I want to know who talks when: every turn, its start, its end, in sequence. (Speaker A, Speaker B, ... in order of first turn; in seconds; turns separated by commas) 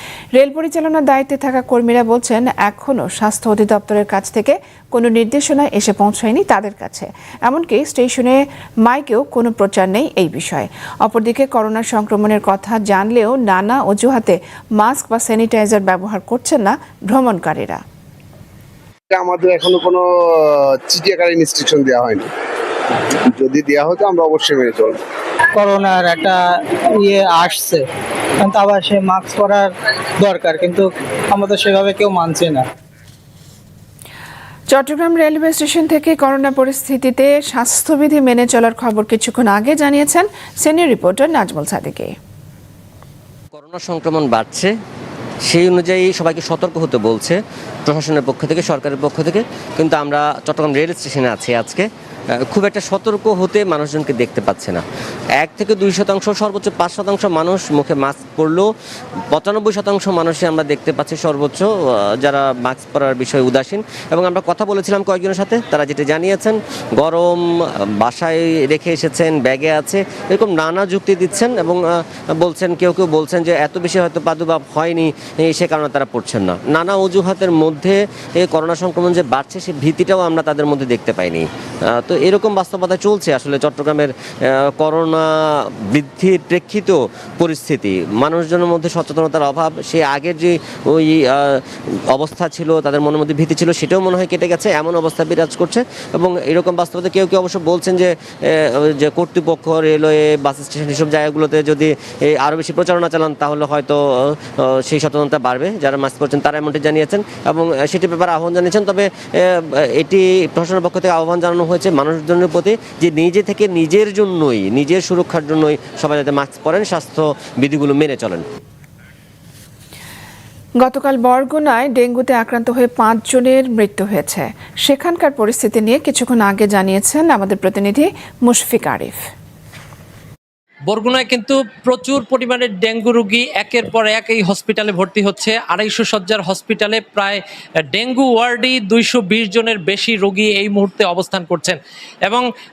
Speaker A: 0.4-17.8, Speaker B: 19.1-20.1, Speaker B: 20.9-22.2, Speaker B: 23.4-24.9, Speaker C: 25.6-26.4, Speaker C: 27.0-27.8, Speaker C: 28.4-32.6, Speaker A: 34.7-42.1, Speaker D: 43.5-44.7, Speaker D: 45.5-54.8, Speaker D: 55.4-58.7, Speaker D: 59.3-118.5, Speaker A: 120.8-129.2, Speaker E: 130.9-137.4, Speaker E: 137.9-142.5